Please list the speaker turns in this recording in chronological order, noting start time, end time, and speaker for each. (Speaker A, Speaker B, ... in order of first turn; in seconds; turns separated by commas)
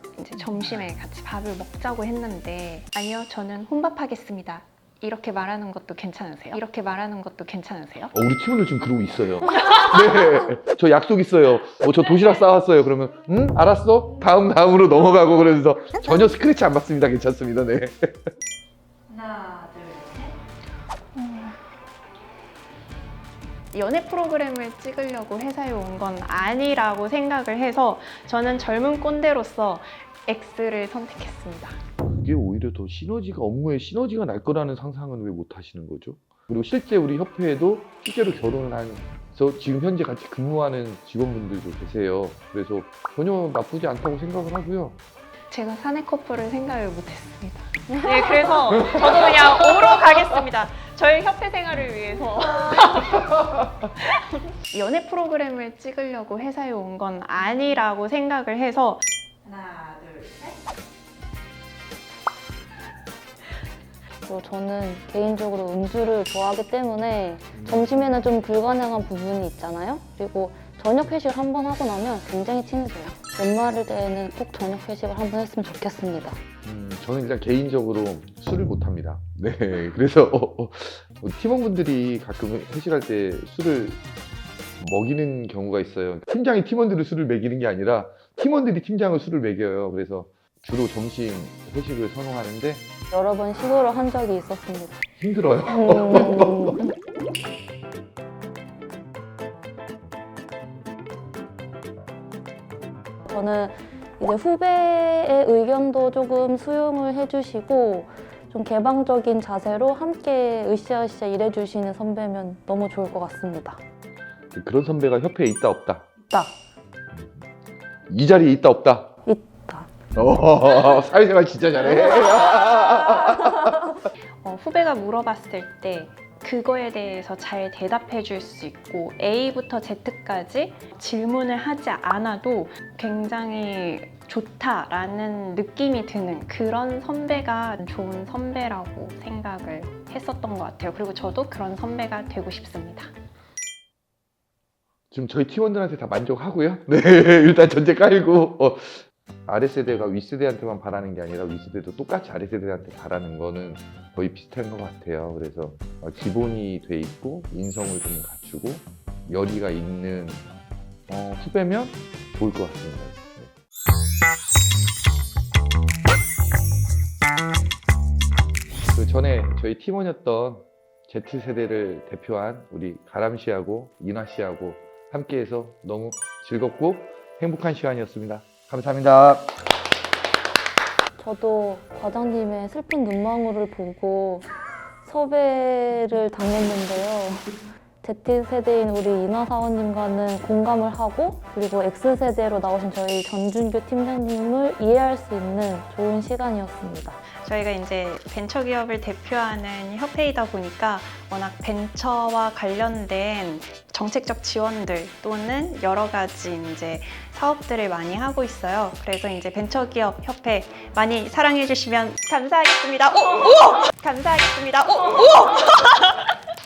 Speaker A: 0.2-8.1, Speaker B: 8.1-18.2, Speaker C: 19.1-20.4, Speaker A: 21.2-21.6, Speaker A: 23.7-31.8, Speaker B: 32.0-45.0, Speaker A: 45.5-53.3, Speaker D: 48.0-48.6, Speaker B: 48.8-49.4, Speaker A: 54.0-59.0, Speaker C: 59.4-60.6, Speaker D: 64.3-76.4, Speaker B: 67.5-68.2, Speaker B: 76.7-84.0, Speaker B: 84.8-92.9, Speaker D: 93.1-95.0, Speaker B: 95.2-96.8, Speaker D: 95.7-96.9, Speaker D: 103.3-113.8, Speaker B: 114.5-116.1, Speaker B: 118.1-119.1, Speaker D: 119.3-119.9, Speaker B: 120.2-123.9, Speaker D: 121.9-122.5, Speaker A: 124.4-143.1, Speaker B: 145.1-160.5, Speaker B: 161.1-163.5, Speaker B: 168.9-179.5, Speaker D: 181.2-184.5, Speaker D: 185.0-197.2, Speaker A: 197.4-216.4